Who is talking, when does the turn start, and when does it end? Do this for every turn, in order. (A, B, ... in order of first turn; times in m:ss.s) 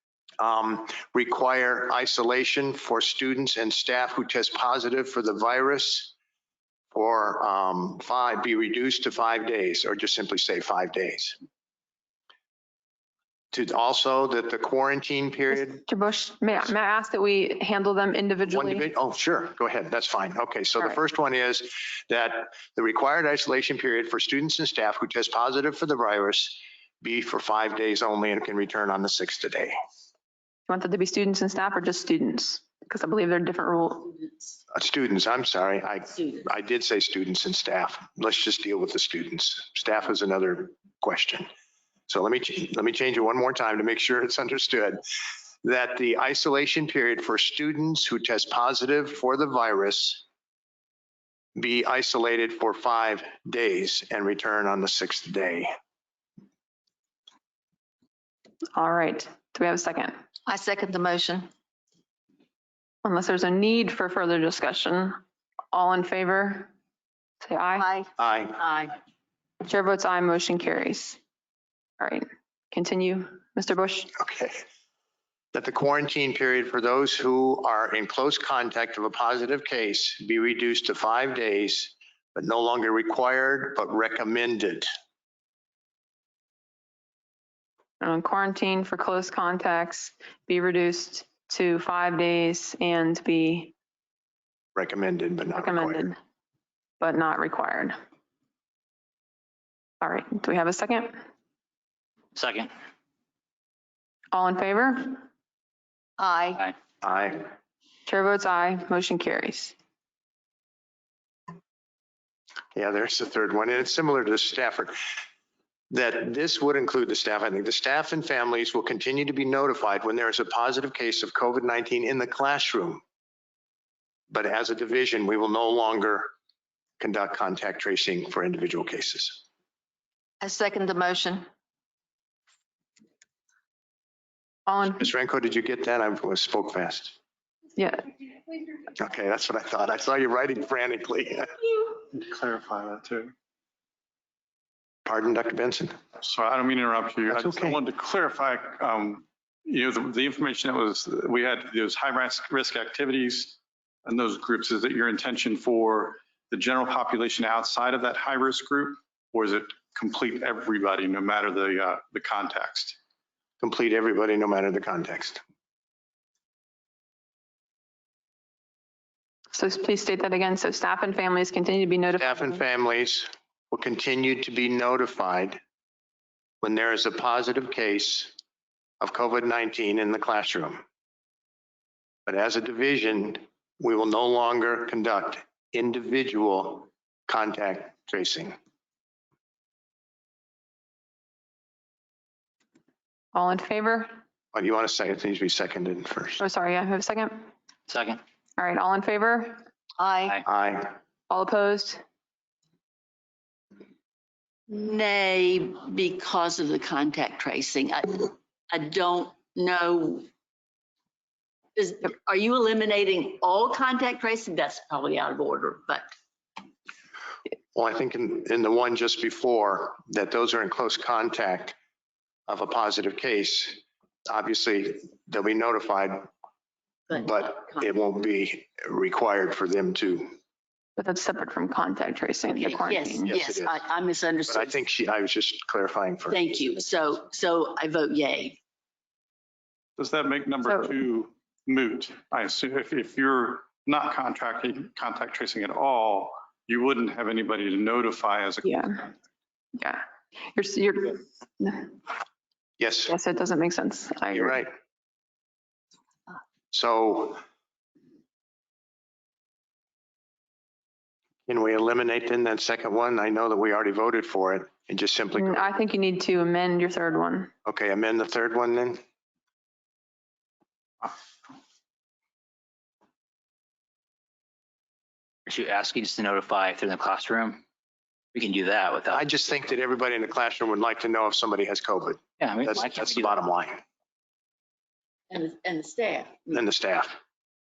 0:00.4-0:06.1 A
0:06.9-0:11.4 A
0:13.5-0:15.8 A
0:15.7-0:18.9 B
0:18.5-0:29.8 A
0:30.7-0:34.2 B
0:34.2-0:34.5 C
0:34.7-0:41.5 A
0:36.1-0:36.4 C
0:42.1-0:45.0 A
0:45.6-0:50.2 A
0:51.6-0:55.7 A
0:58.7-1:00.1 B
1:00.5-1:01.5 D
1:03.0-1:05.2 B
1:05.7-1:06.7 B
1:07.4-1:07.9 B
1:07.8-1:08.1 D
1:08.2-1:08.6 A
1:08.6-1:08.9 C
1:09.6-1:11.2 B
1:12.0-1:14.2 B
1:14.2-1:14.6 A
1:15.5-1:24.9 A
1:28.0-1:33.7 B
1:34.8-1:36.1 A
1:35.5-1:36.2 B
1:37.0-1:38.0 B
1:40.0-1:41.2 B
1:42.3-1:42.7 E
1:44.3-1:45.2 B
1:46.2-1:46.6 D
1:47.0-1:47.4 A
1:48.1-1:49.7 B
1:52.8-1:55.0 A
1:55.9-2:03.0 A
2:04.3-2:06.3 A
2:07.0-2:09.4 A
2:10.4-2:11.4 D
2:14.7-2:15.1 B
2:14.8-2:17.2 A
2:17.8-2:18.1 B
2:19.0-2:21.6 A
2:22.1-2:23.3 F
2:25.0-2:25.9 A
2:26.2-2:43.0 F
2:27.3-2:27.8 A
2:43.6-2:45.4 A
2:49.5-2:52.6 B
2:52.2-2:55.6 A
2:56.6-2:58.3 A
2:59.0-3:00.8 A
3:02.2-3:08.6 A
3:13.3-3:14.1 B
3:14.5-3:16.4 A
3:16.4-3:17.5 B
3:17.9-3:18.2 E
3:18.6-3:19.7 B
3:20.0-3:20.3 D
3:20.4-3:21.0 A
3:21.3-3:22.0 B
3:24.7-3:30.3 C
3:31.8-3:36.0 C
3:37.7-3:41.8 A
3:42.5-3:46.3 A
3:47.1-3:47.9 C
3:47.1-3:50.3 A
3:51.0-3:53.4 B
3:52.5-3:54.7 C
3:53.2-3:53.8 A
3:54.5-3:56.8 A
3:56.3-3:58.6 C
4:00.0-4:08.8 F
4:00.6-4:00.9 B
4:08.6-4:09.0 B
4:09.7-4:10.0 B
4:10.5-4:12.0 B
4:12.8-4:13.1 A
4:13.0-4:14.6 B
4:14.3-4:14.7 A
4:16.7-4:17.4 A
4:21.5-4:25.8 A
4:25.4-4:27.5 B
4:27.6-4:29.0 A
4:35.5-4:37.6 E
4:38.3-4:39.3 E
4:39.1-4:43.8 A
4:42.4-4:43.3 E
4:45.3-4:46.6 C
4:46.5-4:47.2 A